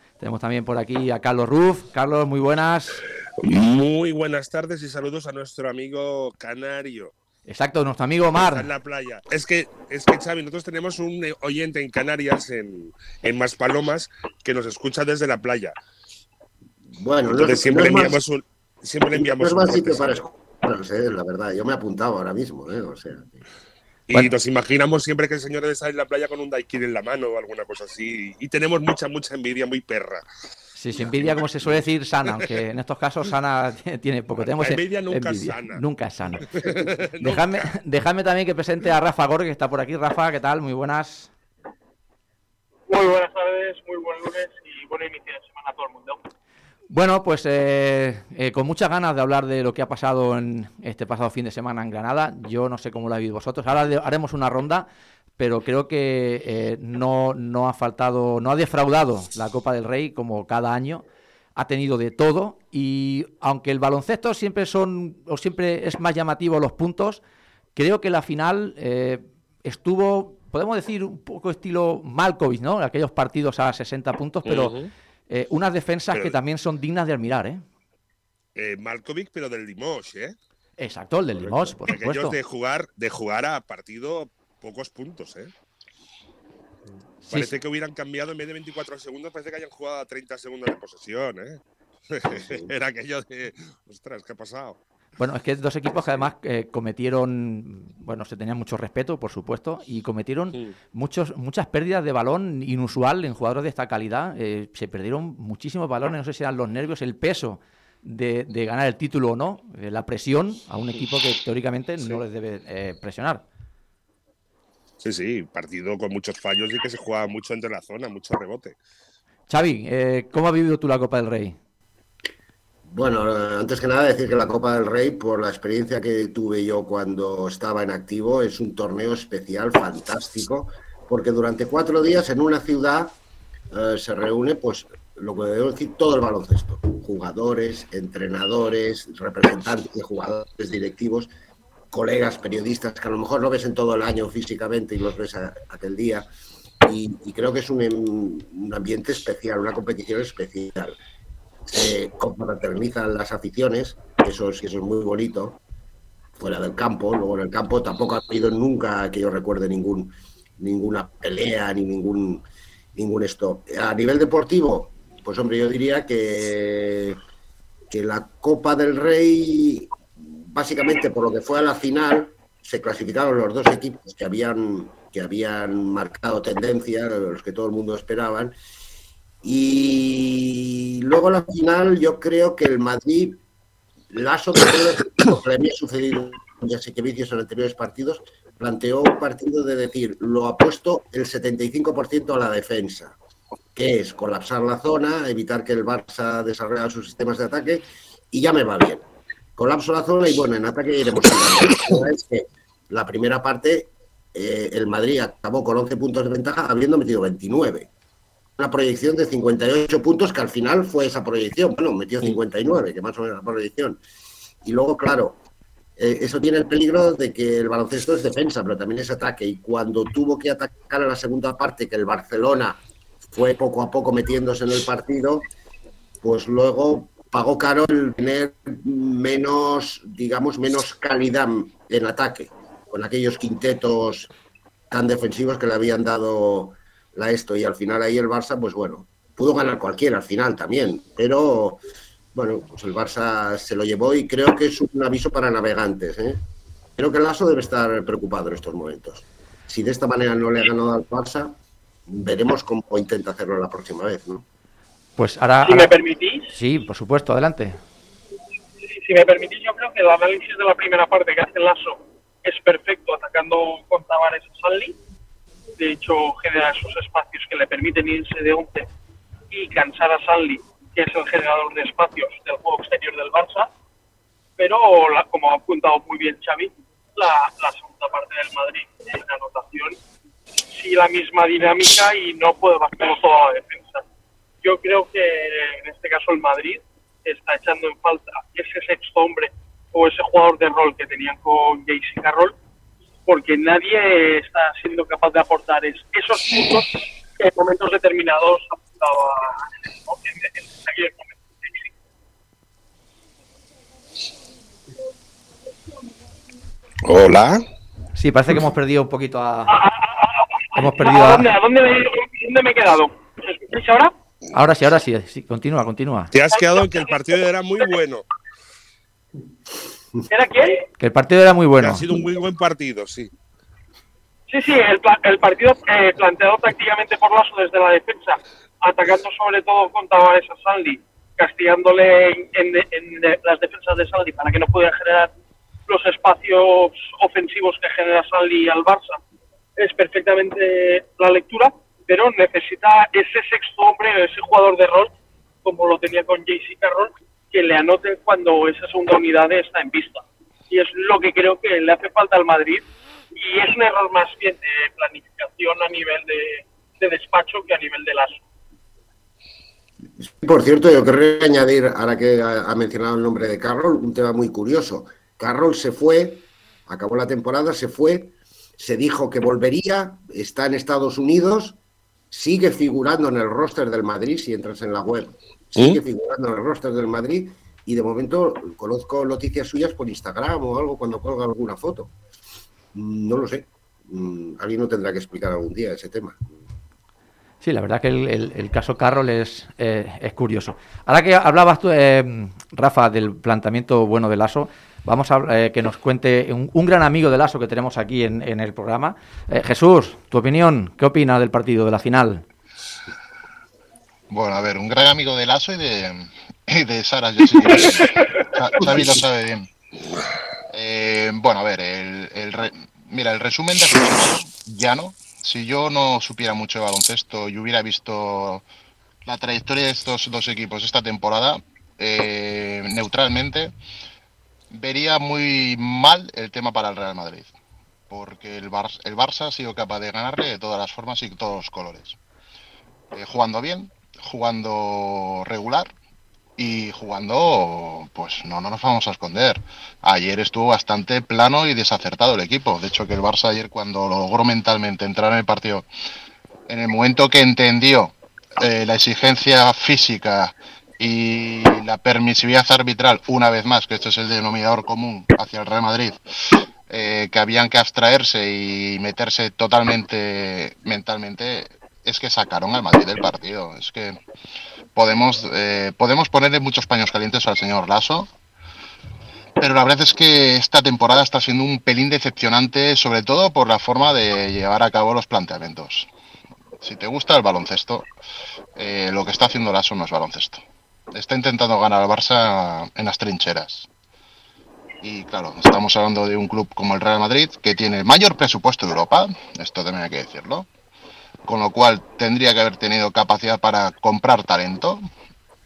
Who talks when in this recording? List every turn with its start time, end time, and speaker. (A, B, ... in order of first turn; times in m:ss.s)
0:00.2-0:03.0 A
0:03.4-0:07.1 B
0:07.5-0:08.7 A
0:08.4-0:15.7 B
0:17.0-0:18.2 C
0:17.3-0:20.2 B
0:19.1-0:23.4 C
0:24.1-0:30.2 B
0:30.8-0:41.3 A
0:31.3-0:31.8 B
0:34.4-0:35.8 B
0:36.5-0:37.7 B
0:42.9-0:46.2 D
0:46.9-0:54.9 A
0:55.4-1:01.0 A
1:01.6-1:07.2 A
1:07.8-1:14.7 A
1:14.4-1:14.9 B
1:15.3-1:17.6 A
1:18.6-1:20.4 B
1:20.8-1:22.4 A
1:21.3-1:25.5 B
1:27.3-1:27.5 A
1:27.3-1:34.8 B
1:32.3-1:32.7 C
1:35.2-1:53.4 A
1:55.0-1:58.8 B
1:59.5-2:01.6 A
2:02.9-2:13.2 C
2:13.7-2:21.3 C
2:21.9-2:26.3 C
2:26.8-2:31.0 C
2:31.7-2:35.6 C
2:36.4-2:47.2 C
2:47.9-2:58.5 C
2:59.4-3:03.4 C
3:04.1-3:13.2 C
3:13.7-3:19.0 C
3:19.6-3:27.9 C
3:28.6-3:34.0 C
3:34.6-3:35.4 C
3:36.0-3:42.8 C
3:43.3-3:45.4 C
3:46.2-3:54.3 C
3:54.9-4:01.8 C
4:02.3-4:06.4 C
4:07.0-4:11.6 C
4:12.1-4:14.4 C
4:15.2-4:15.9 A
4:15.6-4:16.5 D
4:16.5-4:17.8 A
4:18.8-4:25.0 D
4:25.8-4:28.9 D
4:29.5-4:33.7 D
4:34.6-4:40.0 D
4:40.7-4:44.0 D
4:44.6-4:52.5 D
4:53.2-5:01.9 D
5:07.0-5:07.6 B
5:08.2-5:09.8 A
5:09.7-5:14.1 D
5:10.8-5:11.5 A
5:14.5-5:16.3 A
5:16.3-5:18.2 B
5:16.5-5:17.2 D
5:20.3-5:20.8 D
5:21.0-5:22.0 A
5:21.8-5:23.3 B
5:24.5-5:35.3 D
5:35.9-5:39.2 D
5:39.8-5:45.1 D
5:45.6-5:58.4 D
6:00.2-6:11.8 C
6:12.3-6:22.1 C
6:22.9-6:26.4 C
6:27.6-6:42.4 A
6:44.3-6:49.7 E
6:50.7-6:58.6 E
6:59.2-7:03.7 E
7:04.7-7:07.5 E
7:08.1-7:12.2 E
7:13.1-7:15.9 E
7:16.6-7:25.8 E
7:26.7-7:44.2 E
7:44.9-7:48.3 E
7:49.6-7:56.1 E
7:56.8-7:58.1 E
7:58.8-8:03.9 E
8:05.0-8:10.7 E
8:11.4-8:15.0 E